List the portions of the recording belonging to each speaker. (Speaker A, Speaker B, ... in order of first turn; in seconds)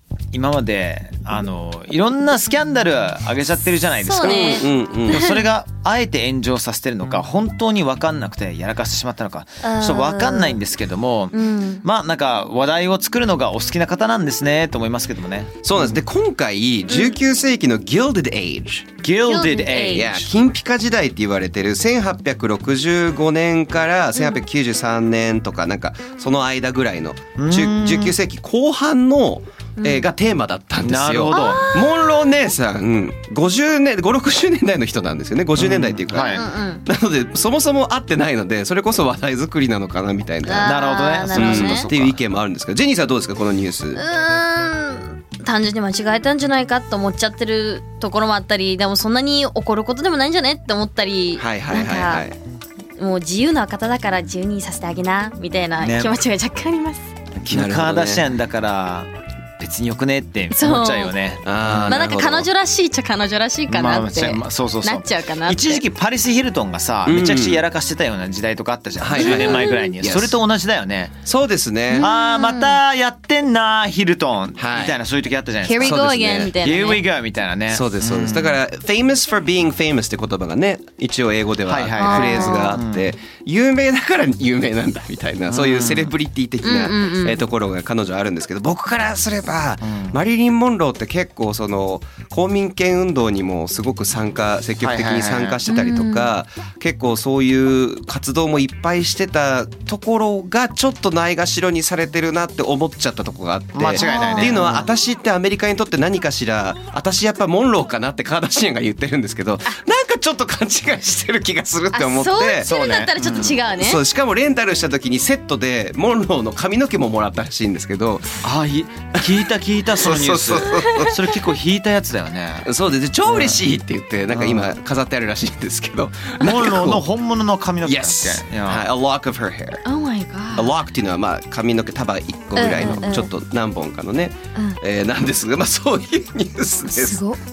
Speaker A: 0.3-15.6, 19.0-20.4, 27.4-28.2, 30.8-31.7, 35.6-36.5, 40.6-42.2, 55.8-56.3, 57.5-62.0, 63.7-71.2, 72.0-76.0, 76.5-78.6, 81.7-83.1, 85.5-86.1, 89.8-90.2, 94.8-95.6, 103.7-104.9, 112.6-113.6, 118.4-122.7, 123.3-123.6, 124.3-124.7, 126.4-128.9
Speaker B: 4.0-5.3, 9.6-10.6, 11.3-11.8, 16.9-17.2, 19.3-20.1, 29.8-30.1, 31.3-32.3, 36.3-36.8, 40.4-41.9, 44.0-52.3, 53.0-57.1, 60.5-61.1, 61.9-65.8, 69.2-69.9, 71.9-72.8, 75.6-77.0, 82.0-82.8, 86.6-87.4, 95.7-96.3, 104.0-104.6, 111.9-114.0, 129.9-130.7, 132.6-133.3, 136.9-137.4
Speaker C: 4.2-5.4, 15.6-18.9, 19.9-44.0, 51.4-52.4, 57.4-58.2, 61.4-62.5, 67.1-67.7, 69.0-70.4, 71.3-72.1, 74.6-75.0, 75.8-76.5, 77.7-112.7, 113.7-118.4, 120.0-121.1, 122.6-127.1, 127.8-129.8, 130.6-137.2